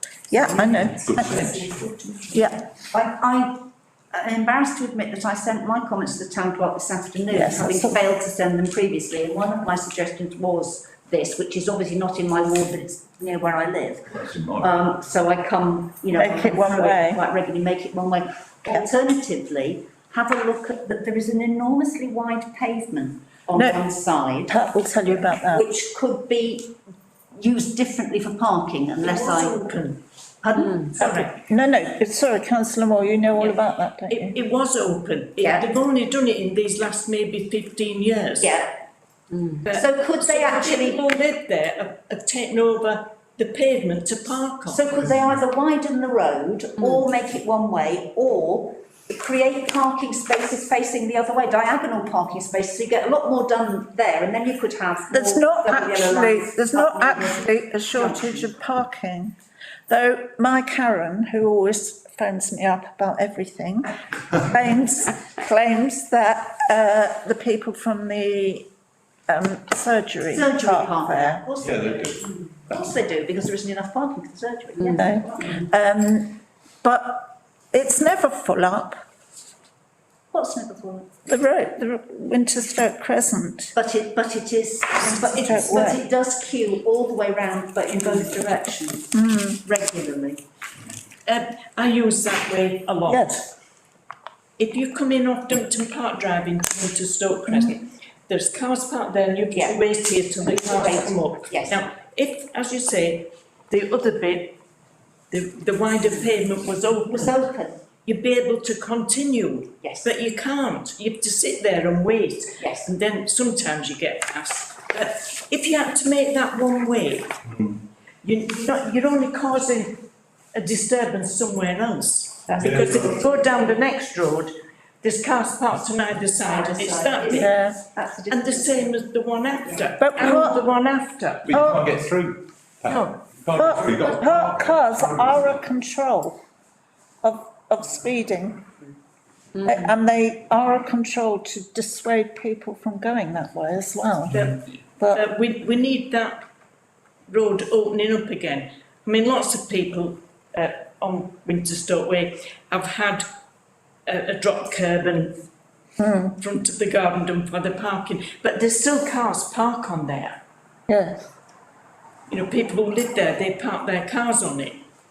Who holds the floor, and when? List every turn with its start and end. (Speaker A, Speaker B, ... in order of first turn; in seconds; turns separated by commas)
Speaker A: 0.3-1.5, Speaker B: 0.8-2.0, Speaker A: 2.3-2.6, Speaker C: 2.7-24.5, Speaker A: 7.3-8.0, Speaker B: 14.1-14.7, Speaker A: 16.1-17.2, Speaker A: 23.6-23.8, Speaker A: 24.5-25.7, Speaker C: 25.1-26.8, Speaker C: 27.4-29.6, Speaker D: 29.0-30.0, Speaker C: 30.4-31.3, Speaker D: 30.6-31.4, Speaker A: 31.5-34.4, Speaker D: 33.4-38.6, Speaker C: 35.4-35.7, Speaker C: 38.4-38.8, Speaker D: 39.6-44.8, Speaker C: 39.7-41.0, Speaker C: 44.7-58.5, Speaker A: 55.1-59.4, Speaker A: 59.9-68.7, Speaker A: 69.3-71.4, Speaker C: 70.3-75.7, Speaker B: 71.6-72.7, Speaker A: 74.9-79.0, Speaker C: 80.3-81.2, Speaker A: 81.3-83.8, Speaker C: 83.8-90.4, Speaker A: 85.1-86.0, Speaker A: 89.1-89.6, Speaker D: 91.3-93.4, Speaker A: 93.1-93.4, Speaker D: 94.6-104.6, Speaker C: 99.5-99.8, Speaker C: 100.4-101.8, Speaker D: 105.3-107.3, Speaker C: 107.1-107.9, Speaker D: 108.0-117.3, Speaker C: 109.8-110.1, Speaker C: 112.6-112.9, Speaker B: 117.5-117.8, Speaker D: 118.2-127.6, Speaker B: 122.6-123.1, Speaker C: 126.4-128.9, Speaker A: 127.4-127.8, Speaker D: 128.3-131.5, Speaker A: 130.0-130.6, Speaker B: 131.5-135.6, Speaker A: 131.5-131.9, Speaker A: 132.9-136.4, Speaker A: 137.2-138.7, Speaker A: 139.6-144.4, Speaker D: 144.3-146.5, Speaker D: 147.3-153.2, Speaker D: 154.1-155.4, Speaker A: 156.0-156.3, Speaker D: 156.4-160.4, Speaker A: 160.9-161.3, Speaker D: 162.3-164.8